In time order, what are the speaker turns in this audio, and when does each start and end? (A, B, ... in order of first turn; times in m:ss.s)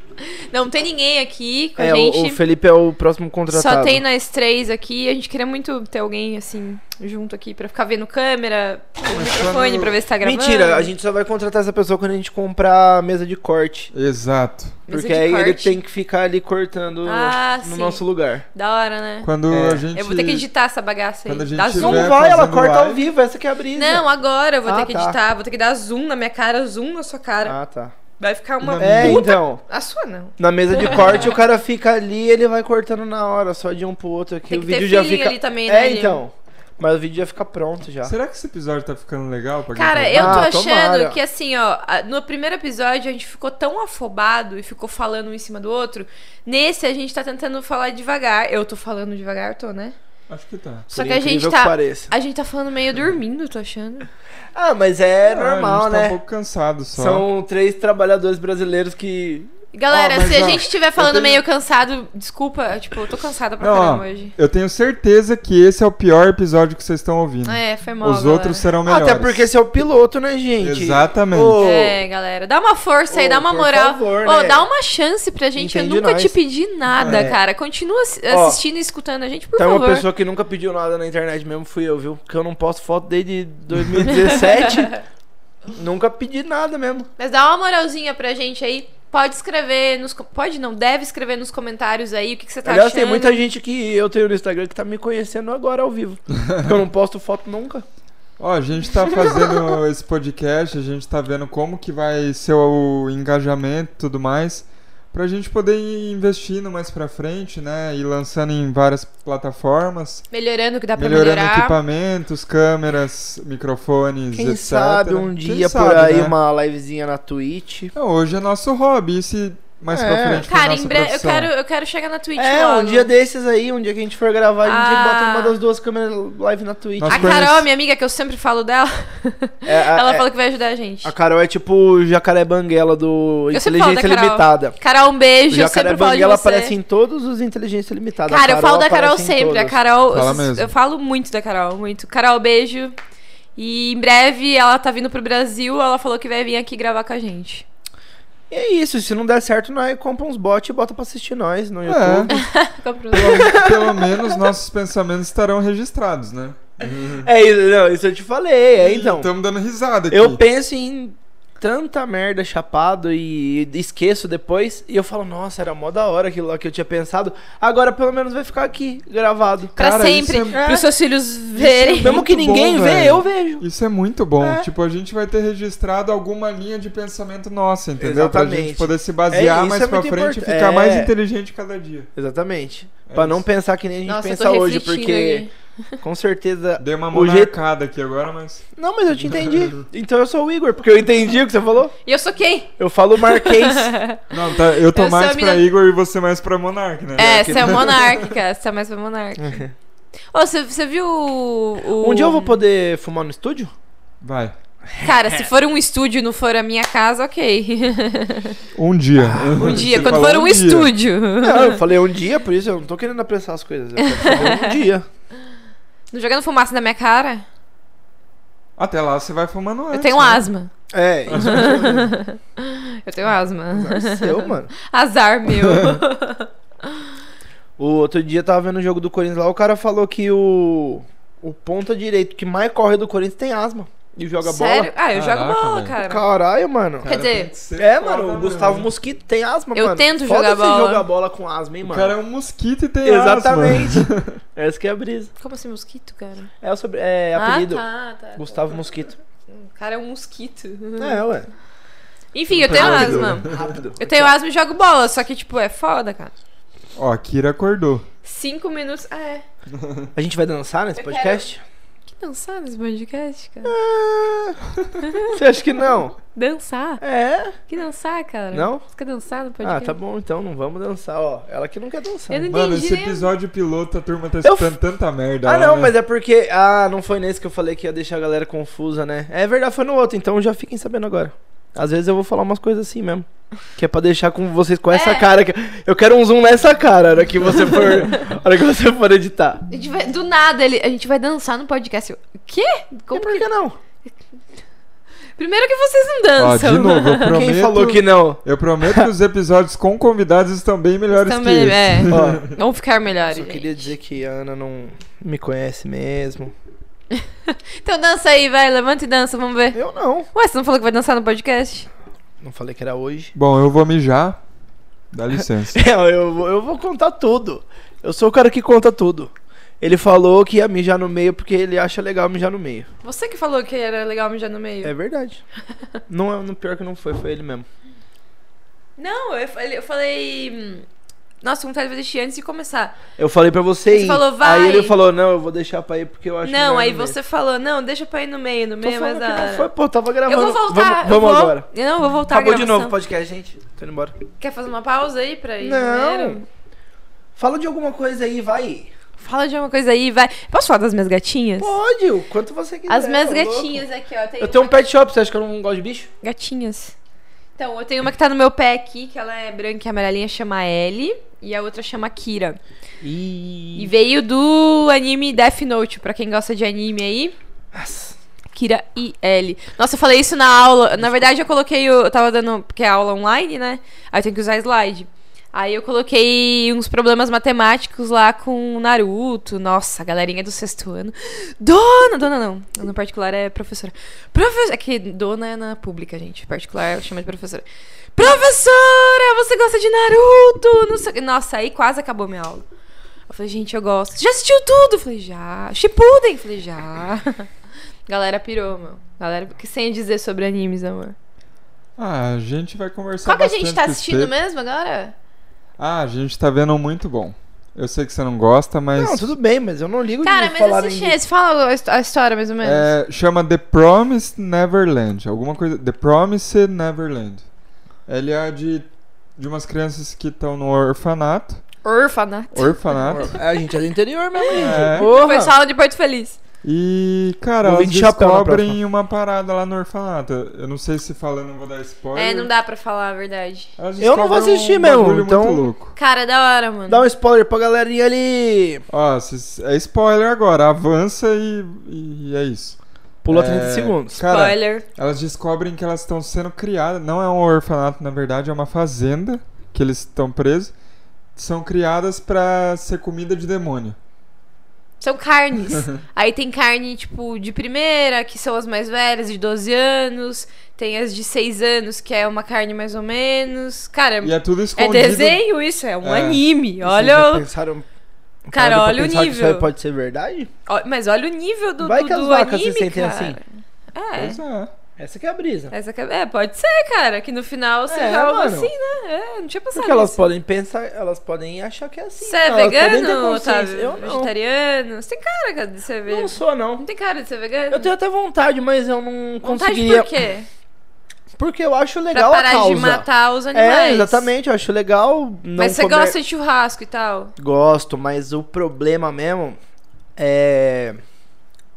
0:00.2-0:02.4 A
0:01.8-0:04.0 B
0:03.5-0:10.9 A
0:09.0-0:10.0 C
0:10.2-0:13.9 B
0:13.9-0:14.8 C
0:14.9-0:15.8 A
0:14.9-0:18.4 B
0:17.0-0:18.0 A
0:18.5-0:19.3 A
0:19.2-0:20.5 C
0:19.5-0:19.9 B
0:19.9-0:22.1 A
0:21.3-0:23.0 C
0:21.8-0:24.1 B
0:23.8-0:27.6 A
0:24.6-0:25.2 B
0:27.4-0:28.0 B
0:28.2-0:31.4 A
0:28.6-0:29.3 C
0:28.8-0:29.6 B
0:30.4-0:38.1 B
0:34.5-0:36.2 A
0:38.0-0:40.5 C
0:39.7-0:50.0 A
0:40.1-0:41.2 B
0:50.3-0:50.9 C
0:50.9-0:52.1 B
0:50.9-0:54.1 A
0:54.5-0:56.2 B
0:55.3-0:57.3 C
0:57.0-1:00.6 B
0:59.7-1:04.3 A
0:59.9-1:01.4 C
1:03.6-1:09.4 C
1:07.4-1:08.7 A
1:08.8-1:12.0 B
1:10.6-1:11.7 C
1:11.6-1:20.1 A
1:13.1-1:14.7 B
1:15.6-1:16.4 B
1:17.0-1:17.3 C
1:17.0-1:17.4 B
1:18.3-1:18.6 B
1:19.6-1:25.0 B
1:24.1-1:25.0 A
1:25.7-1:27.1 B
1:27.2-1:33.4 A
1:32.6-1:37.8 B
1:36.4-1:36.7 C
1:38.4-1:50.3 C
1:50.3-1:51.8 A
1:51.0-1:56.4 C
1:54.3-1:57.9 B
1:58.0-2:01.5 C
1:59.9-2:00.5 B
2:00.4-2:03.1 A
2:02.4-2:07.4 B
2:04.6-2:05.6 A
2:07.0-2:07.7 C
2:07.1-2:11.1 A
2:09.7-2:10.3 B
2:11.0-2:14.8 B
2:13.5-2:16.8 A
2:15.5-2:19.8 B
2:18.3-2:23.0 A
2:20.1-2:20.7 C
2:23.6-2:27.7 A
2:28.5-2:32.4 B
2:31.9-2:32.4 C
2:32.3-2:33.7 A
2:33.1-2:34.4 B
2:33.1-2:37.3 C
2:37.2-2:39.3 B
2:38.8-2:40.4 C
2:40.1-2:49.7 B
2:49.8-2:50.7 C
2:49.8-2:52.2 A
2:50.5-2:50.9 B
2:51.6-2:53.6 B
2:52.0-3:02.1 C
2:54.4-2:54.7 B
2:58.0-3:01.1 B
3:02.2-3:05.5 B
3:03.1-3:03.4 C
3:04.1-3:05.5 A
3:06.0-3:07.5 B
3:06.8-3:08.7 C
3:08.8-3:12.0 B
3:09.2-3:09.8 C
3:12.0-3:15.6 A
3:12.8-3:13.9 B
3:14.3-3:18.2 C
3:17.2-3:18.2 B
3:17.2-3:19.6 A
3:19.4-3:19.7 B
3:20.3-3:22.6 A
3:22.0-3:23.7 B
3:24.2-3:24.5 C
3:24.9-3:25.5 B
3:25.0-3:28.6 A
3:28.8-3:30.9 C
3:29.2-3:30.2 B
3:29.6-3:31.8 A
3:31.4-3:35.1 B
3:34.0-3:34.8 A
3:36.1-3:37.4 A
3:38.8-3:40.4 C
3:39.9-3:40.7 A
3:40.9-3:42.1 B
3:41.3-3:42.0 C
3:41.3-3:47.1 A
3:43.7-3:44.7 B
3:45.5-3:46.0 C
3:47.8-3:54.9 B
3:54.4-3:56.3 A
3:55.1-3:56.0 C
3:56.0-3:57.1 B
3:57.0-3:58.9 C
3:57.0-3:57.5 A
3:57.8-4:02.1 B
3:59.8-4:01.1 A
4:01.8-4:04.3 C
4:03.0-4:05.3 B
4:05.4-4:06.5 A
4:06.6-4:07.8 B
4:07.4-4:08.8 A
4:08.4-4:09.2 B
4:09.5-4:11.2 A
4:11.0-4:11.5 B
4:12.3-4:16.3 A
4:12.5-4:13.7 C
4:12.7-4:14.4 B
4:17.0-4:18.1 C
4:18.2-4:19.4 A
4:19.8-4:20.1 C
4:20.2-4:21.6 B
4:21.0-4:21.4 A
4:22.1-4:23.8 A
4:23.6-4:24.6 B
4:25.0-4:25.4 A
4:25.3-4:26.2 B
4:26.2-4:27.0 A
4:27.0-4:27.6 B
4:27.7-4:30.0 A
4:28.5-4:28.8 B
4:29.6-4:32.5 B
4:32.3-4:33.3 A
4:32.5-4:35.9 C
4:34.4-4:34.7 B
4:35.4-4:49.6 B
4:44.9-4:45.3 A
4:49.7-4:53.5 A
4:53.1-4:53.8 B
4:55.4-4:57.4 A
4:56.4-5:02.6 C
4:57.3-4:59.1 B
5:01.1-5:03.9 A
5:02.1-5:02.5 B
5:03.3-5:06.5 B
5:07.1-5:09.8 A
5:09.7-5:10.3 B
5:10.3-5:11.9 A
5:12.4-5:13.3 B
5:13.4-5:14.4 C
5:15.1-5:15.8 C
5:15.7-5:22.9 B
5:23.0-5:24.9 A
5:24.8-5:25.4 B
5:26.1-5:27.7 B
5:29.0-5:30.9 A
5:31.4-5:33.0 A
5:33.2-5:37.2 B
5:33.9-5:35.0 A
5:36.4-5:39.7 A
5:38.8-5:41.7 B
5:40.2-5:43.0 A
5:42.3-5:44.2 B
5:44.4-5:46.4 A
5:45.6-5:46.4 B
5:47.4-5:48.9 B
5:49.2-5:51.8 A
5:51.6-5:53.8 B
5:52.9-5:54.8 A
5:54.4-5:56.1 B
5:56.2-5:56.9 A
5:57.6-6:02.6 A
6:03.0-6:03.9 B
6:03.8-6:07.4 A
6:07.7-6:08.2 B
6:08.5-6:32.6 A
6:33.3-6:37.5 A
6:38.1-6:41.2 A
6:42.0-6:44.3 C
6:43.2-6:45.1 A
6:45.8-6:49.3 C
6:49.0-6:51.2 B
6:50.2-6:52.9 A
6:52.6-6:57.4 C
6:58.1-6:58.9 C
6:59.4-7:01.6 C
7:01.8-7:03.4 A
7:02.6-7:03.4 C
7:03.1-7:05.6 B
7:04.4-7:06.4 A
7:04.5-7:05.1 C
7:06.6-7:12.5 C
7:07.6-7:08.8 B
7:12.2-7:13.7 A
7:13.8-7:15.9 C
7:14.0-7:15.7 B
7:16.0-7:17.1 A
7:16.9-7:18.8 B
7:18.9-7:30.7 C
7:23.2-7:24.2 B
7:24.2-7:24.8 A
7:31.4-7:34.0 C
7:35.0-7:47.5 A
7:44.2-7:45.4 C
7:46.0-7:46.4 C
7:46.8-7:47.9 B
7:48.5-7:50.5 B
7:48.5-7:49.7 A
7:50.7-7:54.4 A
7:51.8-7:53.4 B
7:54.2-7:54.7 C
7:55.0-7:55.7 B
7:55.7-8:00.3 A
7:57.9-7:58.7 B
7:59.7-8:04.3 B
8:02.2-8:07.9 A
8:06.1-8:06.8 B
8:07.7-8:10.1 B
8:09.4-8:10.5 A
8:11.4-8:16.2 B
8:12.1-8:14.3 A
8:15.6-8:17.3 A
8:17.4-8:19.6 B
8:20.2-8:21.0 B